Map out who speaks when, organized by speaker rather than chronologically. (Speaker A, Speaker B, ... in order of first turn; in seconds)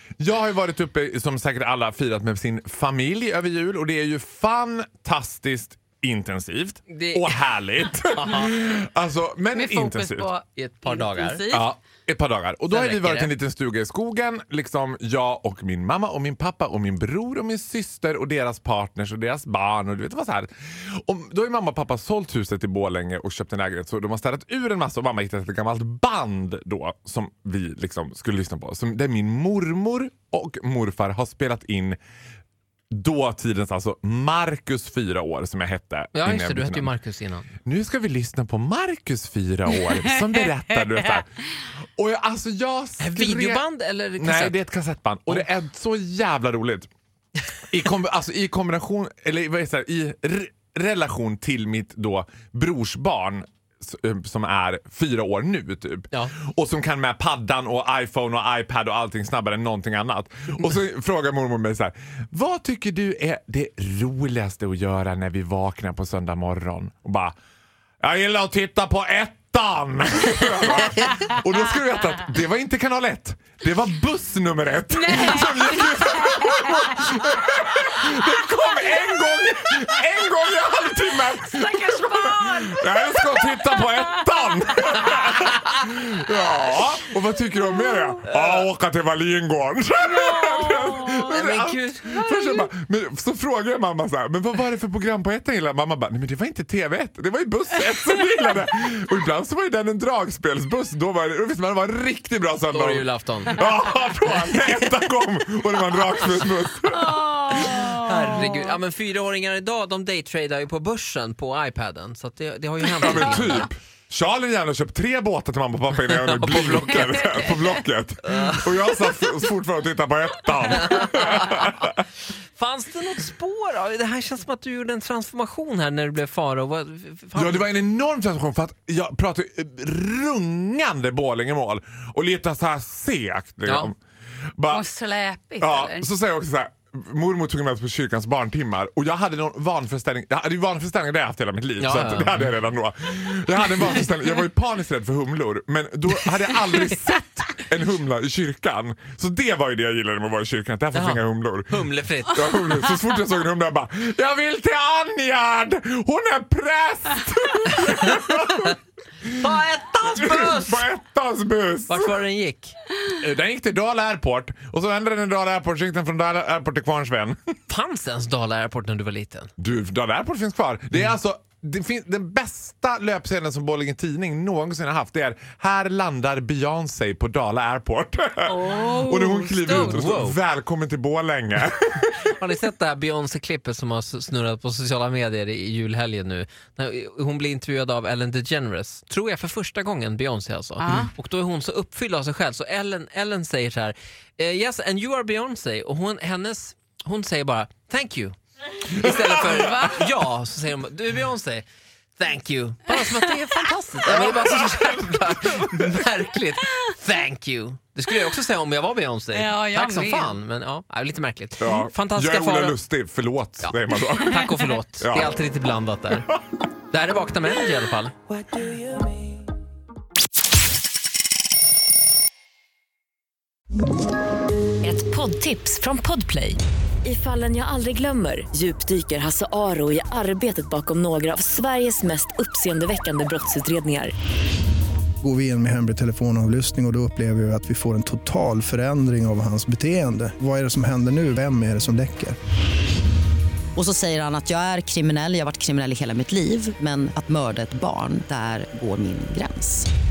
Speaker A: 0.2-10.3, 11.5-32.0, 32.9-36.9, 37.6-41.3, 42.0-43.6, 44.2-46.9, 47.7-67.3, 68.0-107.8, 113.0-122.0, 127.3-133.9, 134.6-134.8, 135.6-162.1, 163.1-167.4, 169.6-182.3, 198.9-200.0, 204.1-205.9, 211.6-215.3
Speaker B: 6.9-8.6, 10.6-11.4, 12.7-13.3, 36.1-37.5, 43.0-44.6, 88.3-88.6, 91.2-92.2, 102.7-103.7, 107.6-113.7, 116.1-117.5, 118.3-118.7, 120.7-121.8, 122.5-127.7, 133.6-133.9, 141.8-142.6, 150.9-152.6, 157.8-158.2, 159.2-160.8, 161.9-162.7, 167.7-169.5, 179.6-180.4, 182.3-201.7, 202.2-212.8, 213.6-216.3, 216.9-218.1
Speaker C: 9.5-11.7, 74.9-77.1, 81.5-85.3, 90.2-91.3, 106.9-108.7, 134.7-136.1, 178.4-180.0, 190.8-191.1, 199.5-199.9, 209.3-210.3, 214.3-214.7
Speaker D: 218.5-219.2, 224.8-234.1
Speaker E: 235.2-242.4
Speaker F: 243.8-249.9